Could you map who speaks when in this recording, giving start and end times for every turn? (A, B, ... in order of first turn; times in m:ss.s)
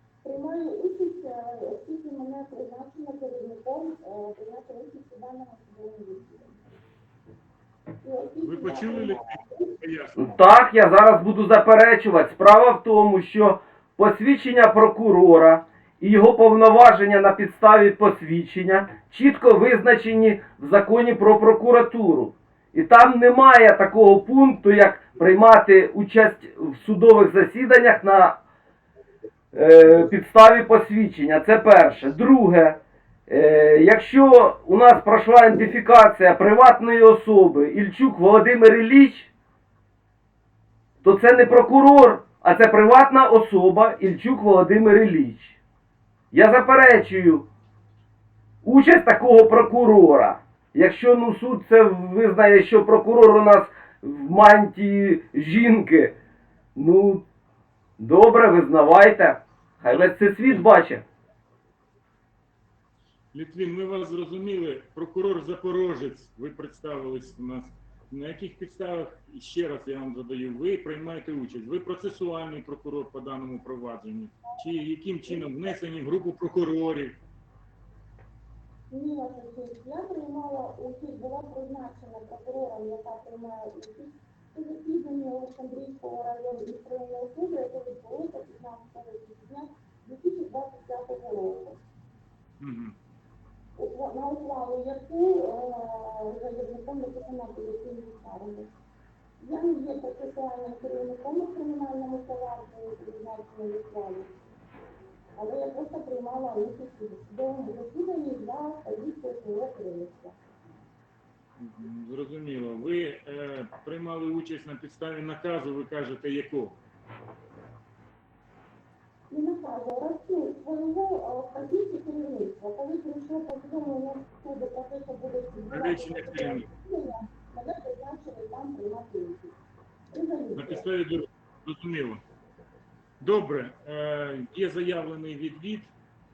0:00.2-0:06.6 A
0:08.0-0:09.7 A
0:08.4-0:10.2 B
0:10.2-0:28.4 C
0:29.5-0:39.3 C
0:41.0-0:45.6 C
0:46.3-0:47.5 C
0:48.6-0:56.2 C
0:56.8-0:57.3 C
0:58.0-1:01.0 C
1:03.3-1:17.2 B
1:18.9-1:31.8 A
1:32.6-1:33.0 B
1:33.8-1:38.7 A
1:39.4-1:44.3 A
1:45.4-1:50.4 A
1:51.6-1:56.8 B
1:59.3-2:09.6 A
2:05.7-2:06.7 B
2:10.1-2:10.8 A
2:10.6-2:12.2 B
2:13.2-2:15.9 B